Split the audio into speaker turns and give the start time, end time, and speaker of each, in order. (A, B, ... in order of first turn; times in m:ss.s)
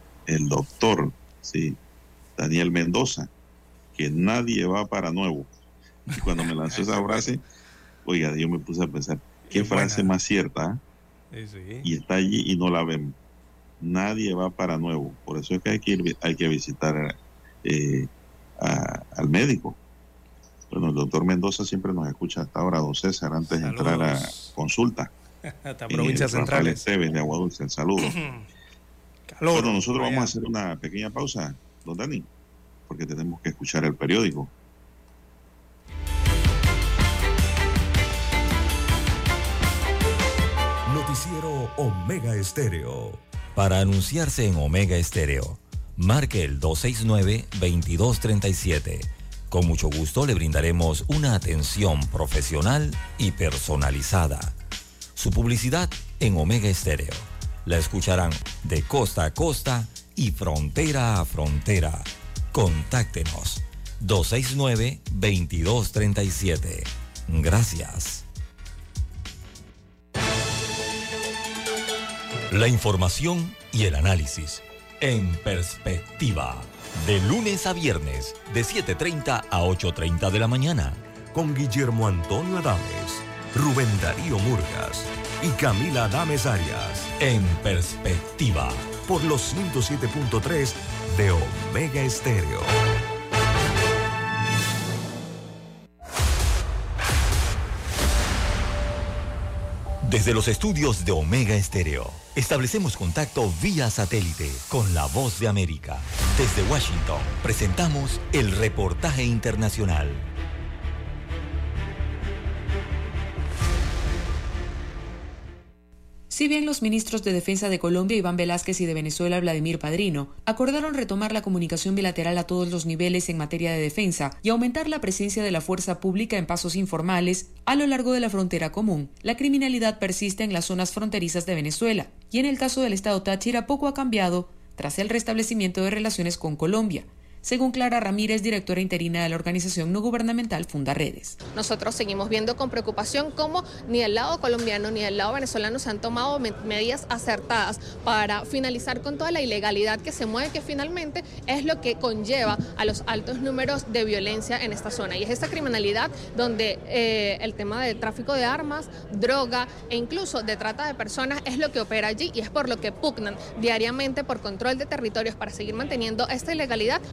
0:00.3-0:01.8 A
0:02.4-0:03.3 A
0:04.0-0:05.5 A
0:06.1-0:07.4 A
0:06.7-0:07.3 B
0:08.0-0:10.8 A
0:09.5-0:10.2 B
0:11.3-0:11.9 B
0:11.8-0:13.2 A
0:13.8-0:19.8 A
0:20.7-0:25.1 A
0:23.5-0:24.5 B
0:25.5-0:26.9 B
0:25.9-0:28.1 A
0:28.0-0:28.5 B
0:29.3-0:30.3 B
0:29.5-0:32.3 A
0:32.9-0:34.5 A
0:40.9-0:43.2 C
0:43.6-0:54.6 D
0:55.2-1:08.2 D
1:12.5-1:21.0 D
1:21.3-1:27.1 C
1:27.2-1:28.9 D
1:29.0-1:32.8 C
1:40.0-1:50.2 D
1:56.3-2:21.4 E
2:21.6-2:47.0 F